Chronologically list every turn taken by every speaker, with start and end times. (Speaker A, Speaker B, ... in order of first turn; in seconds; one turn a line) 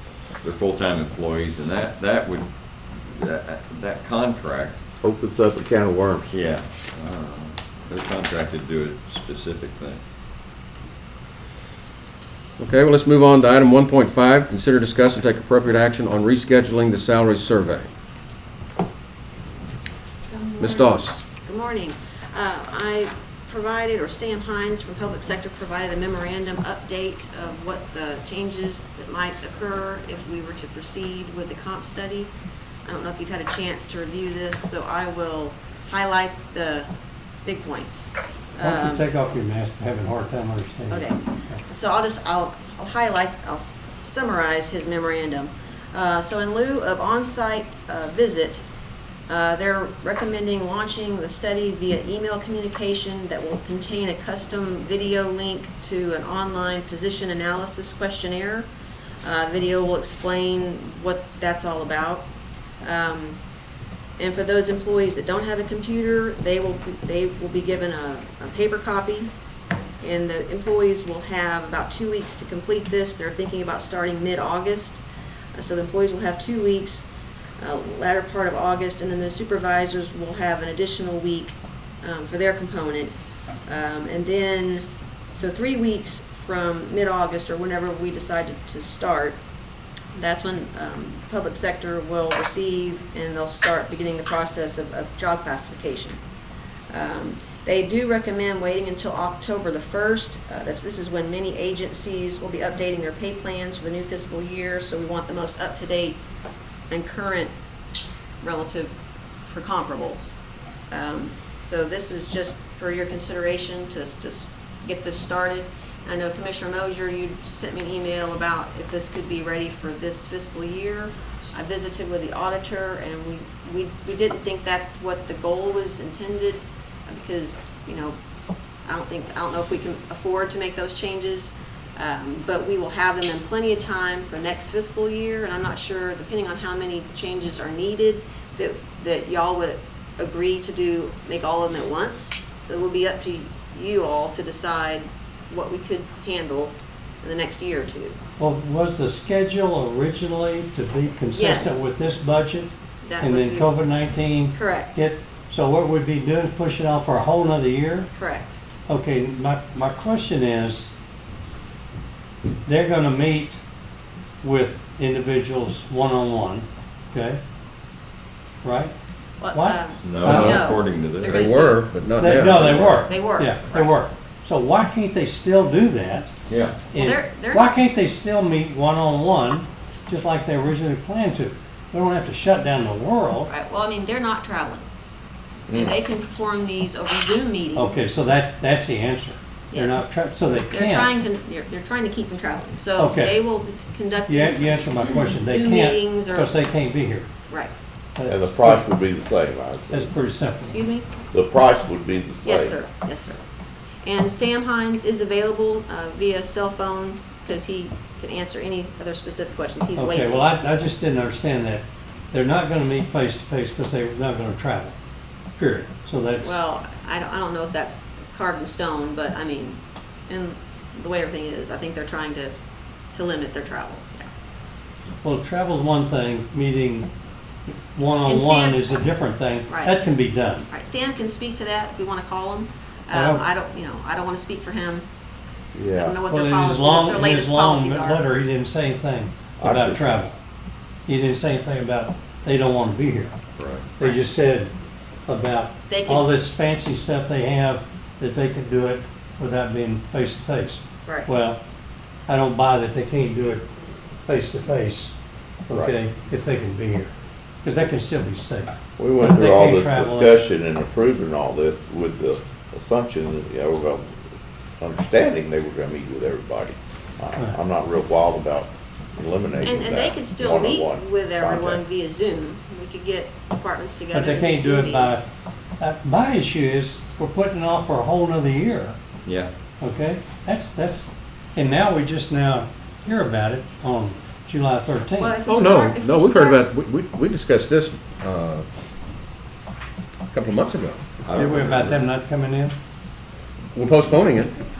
Speaker A: 0.4-4.8
Speaker B: 5.0-6.3
Speaker A: 6.3-10.0
Speaker C: 12.6-17.9
Speaker D: 20.3-32.3
Speaker C: 20.6-21.2
Speaker D: 32.9-36.9
Speaker D: 37.4-39.1
Speaker E: 38.6-41.6
Speaker D: 40.9-48.6
Speaker D: 49.3-58.7
Speaker D: 59.2-62.3
Speaker D: 62.8-63.4
Speaker D: 64.2-69.3
Speaker D: 70.0-75.0
Speaker D: 75.5-83.1
Speaker D: 83.7-89.4
Speaker D: 90.2-96.2
Speaker D: 96.9-106.2
Speaker D: 106.9-107.5
Speaker D: 108.4-108.9
Speaker D: 109.4-110.3
Speaker D: 110.9-128.2
Speaker D: 128.8-148.2
Speaker E: 148.4-158.1
Speaker D: 151.3-151.9
Speaker D: 153.0-153.7
Speaker D: 154.5-155.0
Speaker D: 158.1-158.6
Speaker E: 158.9-160.9
Speaker E: 162.7-163.6
Speaker E: 164.4-167.4
Speaker E: 168.6-168.9
Speaker D: 169.4-171.9
Speaker E: 169.5-170.6
Speaker A: 170.0-171.4
Speaker C: 170.2-170.7
Speaker C: 171.2-172.9
Speaker E: 172.2-176.3
Speaker D: 172.9-173.9
Speaker A: 176.5-176.8
Speaker E: 176.9-183.5
Speaker D: 176.9-177.7
Speaker D: 183.4-184.8
Speaker B: 185.7-185.9
Speaker D: 185.7-188.1
Speaker E: 187.7-191.1
Speaker D: 189.7-190.1
Speaker D: 190.7-196.5
Speaker E: 193.0-193.4
Speaker E: 194.3-197.3
Speaker E: 198.2-198.8
Speaker B: 198.3-200.1
Speaker E: 199.9-200.8
Speaker D: 200.6-201.1
Speaker B: 201.3-202.8
Speaker D: 202.4-203.4
Speaker D: 204.0-210.5
Speaker E: 209.9-214.9
Speaker E: 215.6-216.6
Speaker D: 216.4-222.6
Speaker D: 223.1-224.3
Speaker E: 225.2-227.1
Speaker E: 227.9-230.7
Speaker D: 228.2-229.0
Speaker D: 229.7-230.1
Speaker D: 230.7-235.1
Speaker E: 233.1-233.4
Speaker B: 235.7-236.2
Speaker D: 235.9-238.2
Speaker E: 236.3-240.4
Speaker B: 239.6-240.1
Speaker E: 241.1-243.3
Speaker A: 243.6-243.9
Speaker E: 244.0-244.7
Speaker E: 245.3-251.6
Speaker D: 245.9-246.3
Speaker E: 252.3-253.6
Speaker E: 254.2-255.2
Speaker E: 255.7-257.1
Speaker E: 257.6-260.4
Speaker B: 259.0-264.2
Speaker B: 264.8-271.8
Speaker D: 269.6-275.3
Speaker E: 274.1-275.2
Speaker E: 275.8-279.0
Speaker A: 279.2-279.5
Speaker E: 279.8-285.4
Speaker D: 285.2-286.6
Speaker C: 285.4-288.6
Speaker C: 290.3-291.0
Speaker E: 291.3-292.7
Speaker B: 291.4-291.9
Speaker C: 293.7-294.5